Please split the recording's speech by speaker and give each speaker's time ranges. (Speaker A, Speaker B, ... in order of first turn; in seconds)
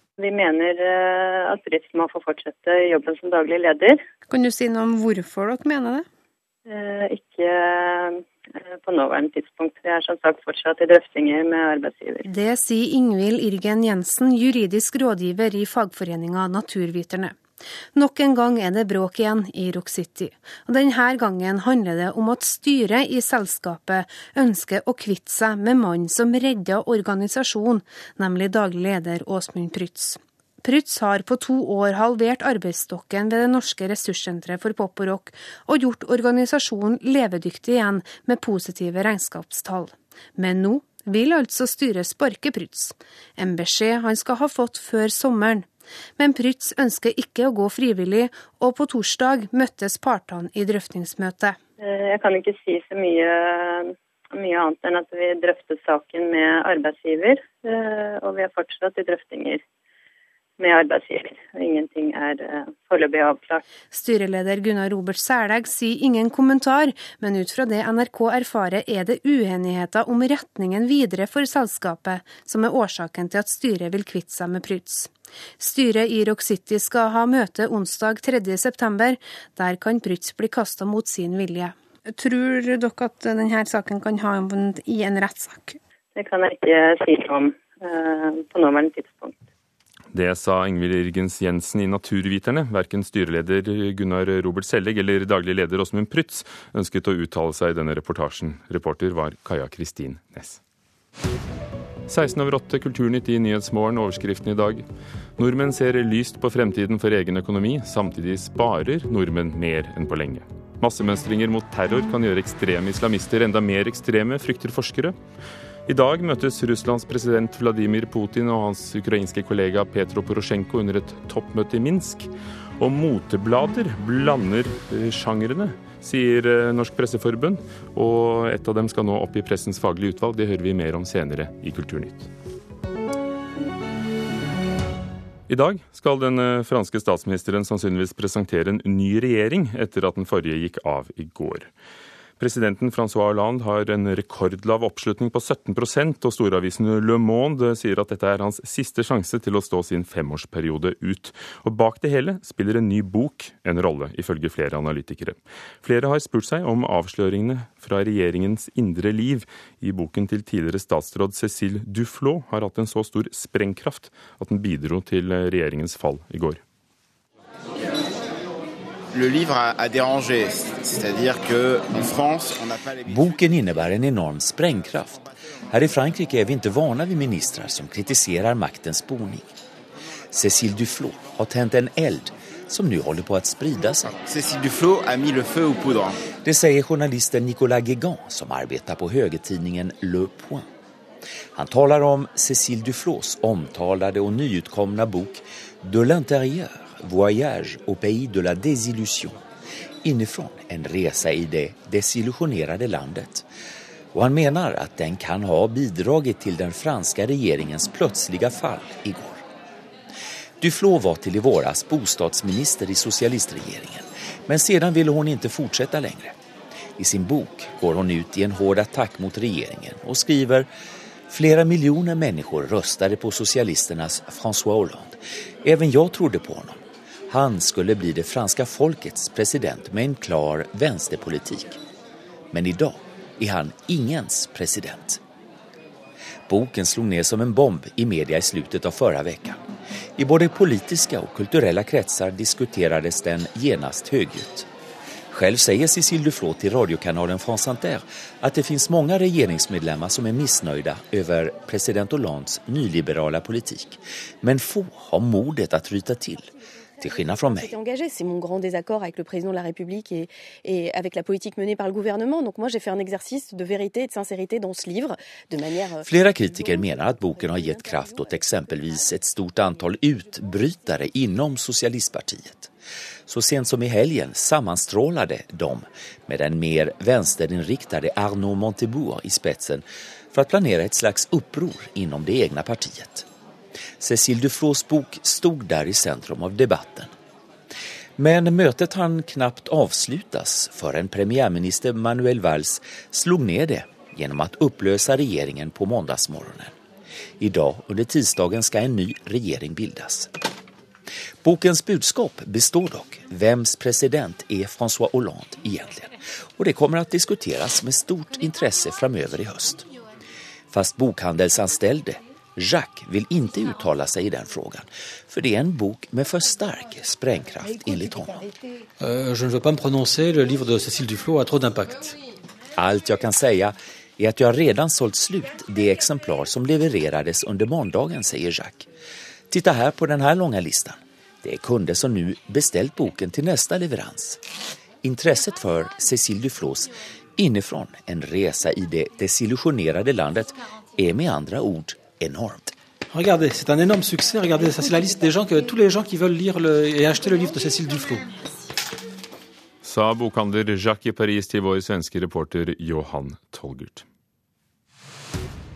Speaker A: 0.2-4.0, 6.7-12.3, 51.8-59.6, 60.6-63.6, 86.1-89.4
Speaker B: 4.3-6.0, 12.3-17.4, 17.9-51.6, 63.9-85.8
Speaker C: 90.1-100.6, 102.1-104.8, 105.4-115.2, 115.9-132.3, 135.5-141.7, 142.4-166.6, 349.8-354.1
Speaker D: 169.1-173.4, 184.2-186.1
Speaker E: 173.1-179.5, 180.3-184.2, 186.4-190.7, 191.5-199.4, 200.0-203.4, 204.1-209.4, 210.6-216.3, 217.0-220.7, 221.3-231.8, 232.5-235.2, 236.5-239.6, 240.2-244.7, 245.3-257.7, 266.0-272.7, 273.3-283.2, 284.0-287.1, 288.2-296.7, 297.4-300.3, 301.4-309.9, 310.7-318.5, 322.8-328.9, 329.5-334.4, 335.0-342.7
Speaker F: 257.5-266.1, 266.6-267.7
Speaker G: 319.0-322.2, 343.1-348.3